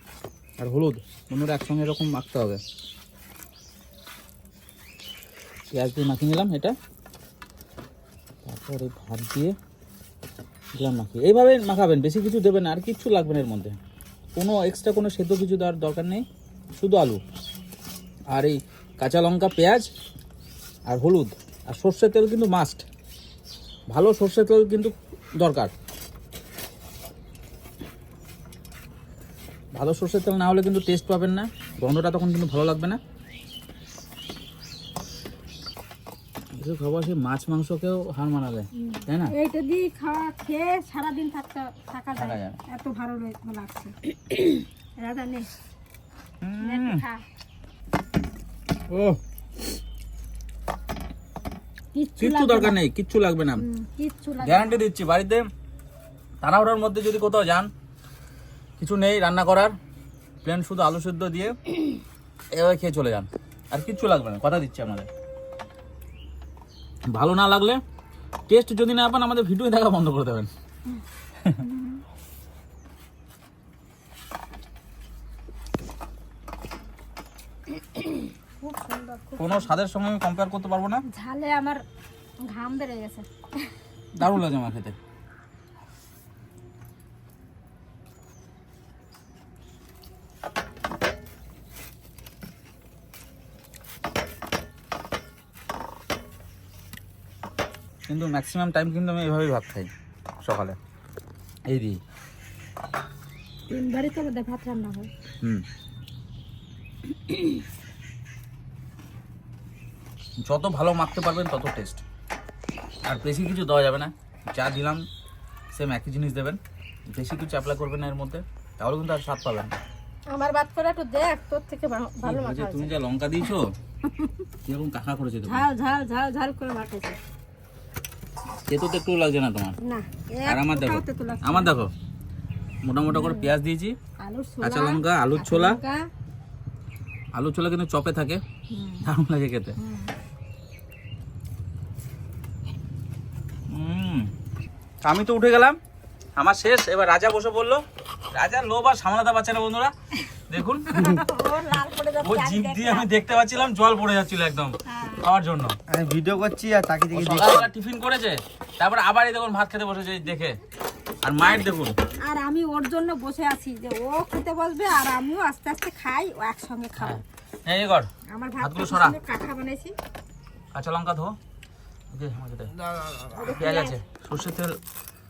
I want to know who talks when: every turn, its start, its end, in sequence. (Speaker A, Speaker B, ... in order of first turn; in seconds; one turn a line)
Speaker A: 0.6-2.6
Speaker A: 5.7-6.7
Speaker A: 8.4-9.5
Speaker A: 10.8-13.8
Speaker A: 14.4-16.2
Speaker A: 16.8-17.2
Speaker A: 18.3-19.9
Speaker A: 20.9-22.8
Speaker A: 23.9-25.7
Speaker A: 29.7-33.0
Speaker A: 36.5-39.3
Speaker B: 38.7-45.5
Speaker A: 42.2-42.6
Speaker A: 46.4-47.0
Speaker B: 46.6-47.2
Speaker A: 48.9-49.2
Speaker B: 51.9-52.8
Speaker A: 52.2-53.6
Speaker B: 53.6-54.8
Speaker A: 54.4-55.5
Speaker A: 56.4-57.7
Speaker A: 58.8-59.7
Speaker A: 60.4-61.6
Speaker A: 62.5-65.1
Speaker A: 67.1-67.8
Speaker A: 68.5-70.5
Speaker B: 71.6-72.0
Speaker B: 77.8-79.7
Speaker A: 79.4-81.0
Speaker B: 81.1-81.8
Speaker B: 82.4-84.4
Speaker A: 84.2-85.0
Speaker A: 98.1-99.9
Speaker A: 100.4-100.8
Speaker A: 101.7-102.0
Speaker B: 103.7-105.1
Speaker B: 107.1-107.6
Speaker A: 110.5-112.0
Speaker A: 113.1-115.0
Speaker A: 115.7-116.6
Speaker A: 117.1-119.7
Speaker B: 120.3-122.9
Speaker A: 122.2-123.7
Speaker B: 124.0-124.5
Speaker A: 124.7-125.6
Speaker B: 125.4-127.2
Speaker A: 128.7-129.8
Speaker B: 129.8-131.7
Speaker A: 130.4-131.9
Speaker A: 132.8-134.0
Speaker B: 133.1-133.6
Speaker B: 134.2-136.1
Speaker A: 134.6-135.8
Speaker A: 137.3-138.4
Speaker B: 138.7-139.1
Speaker A: 139.0-139.8
Speaker B: 139.8-140.1
Speaker A: 143.7-144.3
Speaker A: 145.0-145.8
Speaker A: 146.4-149.9
Speaker A: 150.5-151.0
Speaker B: 150.9-153.1
Speaker A: 152.2-155.8
Speaker B: 154.8-155.2
Speaker C: 155.9-157.7
Speaker A: 157.1-160.6
Speaker A: 161.2-162.0
Speaker B: 162.2-167.2
Speaker A: 166.9-169.2
Speaker B: 168.3-169.9
Speaker A: 170.7-171.4
Speaker A: 172.1-172.7
Speaker C: 172.7-173.5
Speaker B: 173.3-174.0
Speaker A: 173.5-174.8